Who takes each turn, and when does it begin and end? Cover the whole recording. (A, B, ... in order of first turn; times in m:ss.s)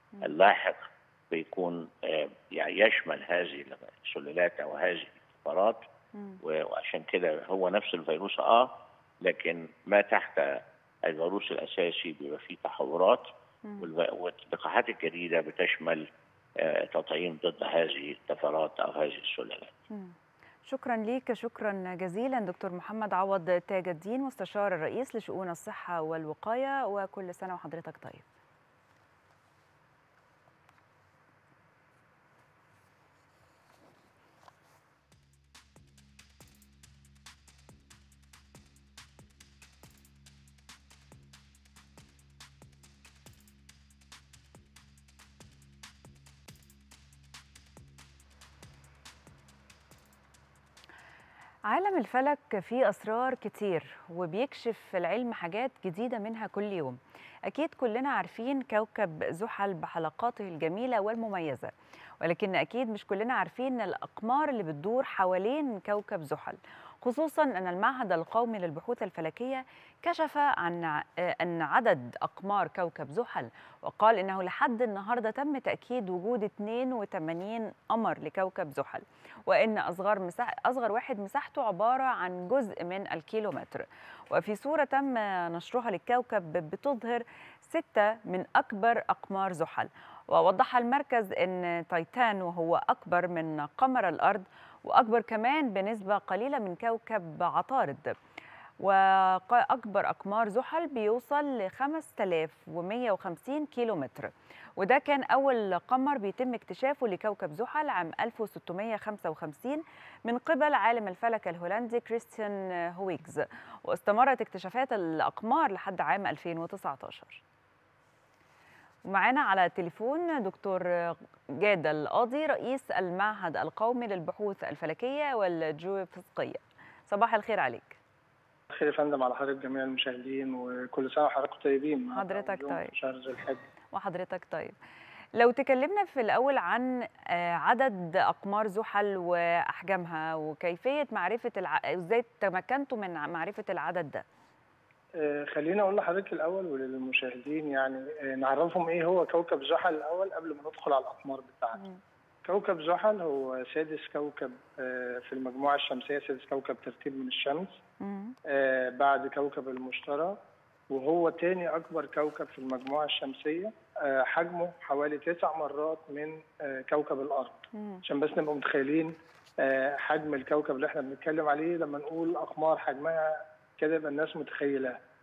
0:00.2-0:05.8 A
0:06.1-0:06.4 B
0:06.4-0:08.7 A
0:09.2-0:10.5 A
0:11.1-0:13.3 A
0:13.8-0:16.1 A
0:16.6-0:19.7 A
0:20.7-0:28.2 B
0:51.7-1:38.1 B
1:38.8-1:57.4 B
1:59.1-2:08.0 B
2:08.8-2:13.6 C
2:12.2-2:12.9 B
2:13.9-2:14.8 B
2:15.4-2:24.2 B
2:25.2-2:31.8 C
2:32.5-2:37.8 C
2:38.0-2:38.4 B
2:38.5-2:40.4 C
2:40.9-2:49.1 C
2:47.7-2:48.0 B
2:49.6-2:55.0 C